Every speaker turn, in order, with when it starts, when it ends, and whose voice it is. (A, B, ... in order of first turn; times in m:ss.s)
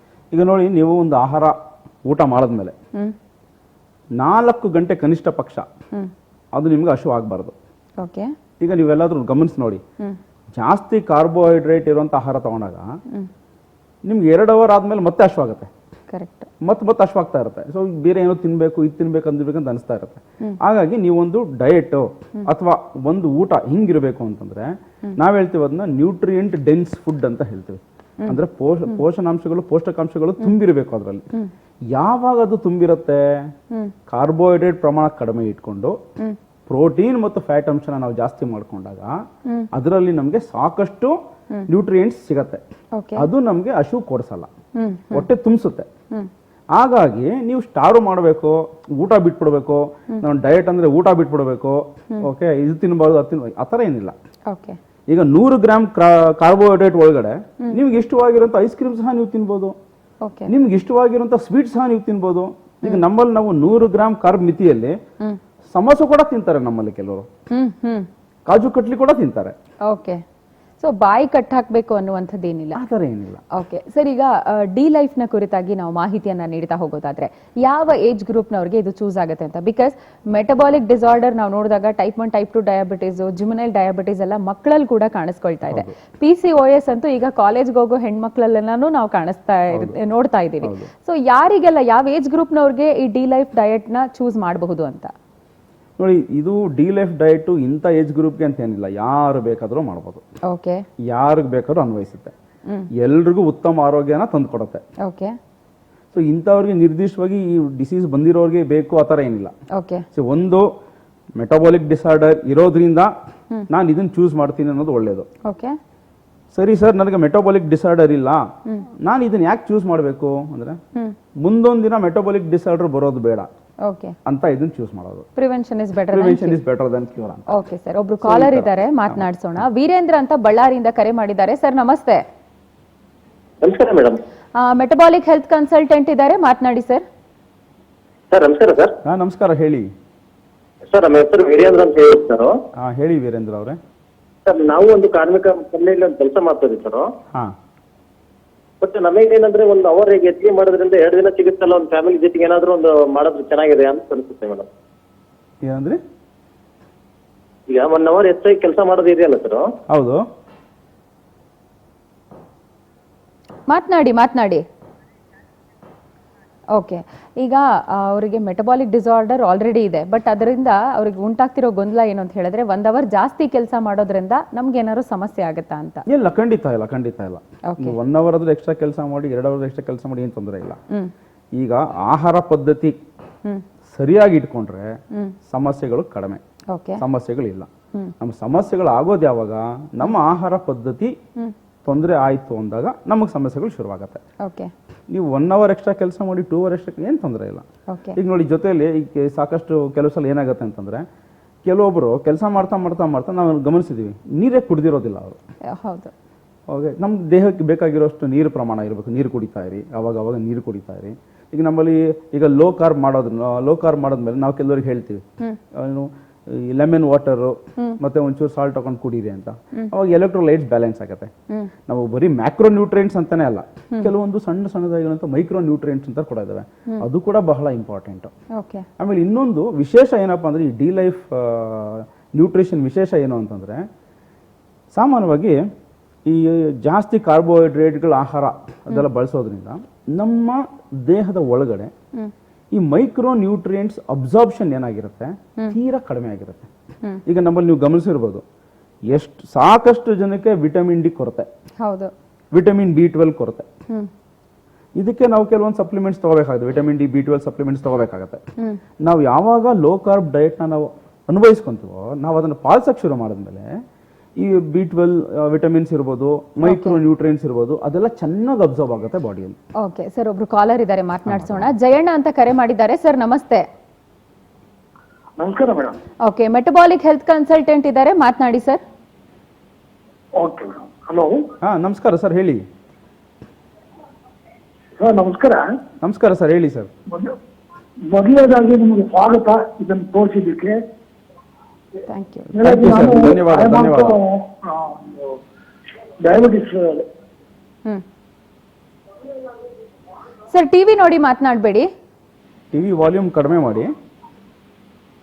0:00.3-0:01.5 A
0:02.0-0:02.7 A
0:04.2-0:05.6 A
0:06.5-0:07.5 A
0:08.0-0:08.3 B
0:08.6-0:09.8 A
0:10.5-0:13.0 A
0:14.0-0:15.7 A
0:16.1-0:16.5 B
0:16.6-0:31.2 A
0:31.9-0:33.5 A
0:34.1-0:36.0 A
0:36.7-0:39.2 A
0:39.7-0:41.2 A
0:41.7-0:42.6 A
0:42.9-0:43.3 B
0:43.2-0:44.5 A
0:44.8-0:45.2 B
0:45.1-0:45.9 A
0:46.7-0:54.1 A
0:54.5-0:54.8 B
0:55.1-0:59.7 A
1:00.2-1:00.5 B
1:00.5-1:05.0 A
1:05.7-1:07.3 A
1:07.5-1:08.1 B
1:08.5-1:09.5 A
1:09.8-1:10.2 B
1:10.8-1:12.8 B
1:12.7-1:13.4 A
1:13.5-1:35.1 B
1:29.7-1:30.0 A
1:30.6-1:30.9 A
1:36.0-1:40.2 A
1:40.5-1:40.8 B
1:41.0-1:42.3 A
1:42.9-1:44.8 A
1:45.0-1:45.4 B
1:46.1-1:49.5 A
1:49.7-1:50.0 B
1:50.1-1:50.7 A
1:51.4-1:53.1 A
1:53.7-1:55.3 A
1:55.4-1:55.8 B
1:56.5-1:58.4 A
1:59.0-2:00.8 A
2:01.4-2:03.5 A
2:03.8-2:04.1 B
2:04.2-2:05.2 A
2:05.4-2:06.6 B
2:06.1-2:07.5 A
2:07.5-2:12.2 B
2:08.2-2:09.2 A
2:13.6-2:14.2 C
2:14.6-2:17.0 B
2:18.3-2:18.9 C
2:19.0-2:19.9 A
2:20.9-2:22.5 C
2:22.8-2:23.8 A
2:24.4-2:27.0 C
2:28.8-2:34.7 C
2:35.6-2:36.0 A
2:37.7-2:39.6 C
2:39.9-2:40.2 A
2:43.7-2:44.6 B
2:46.7-2:56.0 B
2:56.1-3:00.8 A
2:57.7-2:58.0 B
3:01.6-3:03.0 A
3:03.9-3:06.4 A
3:06.7-3:07.0 B
3:07.0-3:07.7 A
3:08.2-3:11.1 A
3:11.8-3:14.2 A
3:14.4-3:14.7 B
3:15.1-3:21.0 A
3:17.9-3:18.2 B
3:21.6-3:25.4 A
3:25.7-3:26.1 B
3:26.7-3:35.2 A
3:35.7-3:41.3 A
3:41.9-3:48.3 A
3:48.5-3:48.8 B
3:49.0-3:53.8 A
3:54.9-3:55.6 A
3:56.3-4:01.9 A
4:02.7-4:06.7 A
4:07.2-4:08.4 A
4:09.1-4:11.5 A
4:11.8-4:12.1 B
4:12.5-4:13.7 A
4:15.0-4:18.4 A
4:19.0-4:23.7 A
4:24.4-4:29.6 A
4:26.6-4:27.0 B
4:29.8-4:33.6 B
4:31.3-4:31.7 A
4:35.4-4:36.0 D
4:36.2-4:38.8 B
4:40.4-4:41.3 D
4:41.6-4:42.6 A
4:45.0-4:45.6 D
4:46.0-4:46.9 A
4:47.1-4:47.3 D
4:48.1-4:50.8 D
4:52.1-4:52.5 B
4:52.5-4:55.4 D
4:52.6-4:54.2 A
4:56.2-4:57.0 D
5:00.5-5:01.9 B
5:02.7-5:03.9 A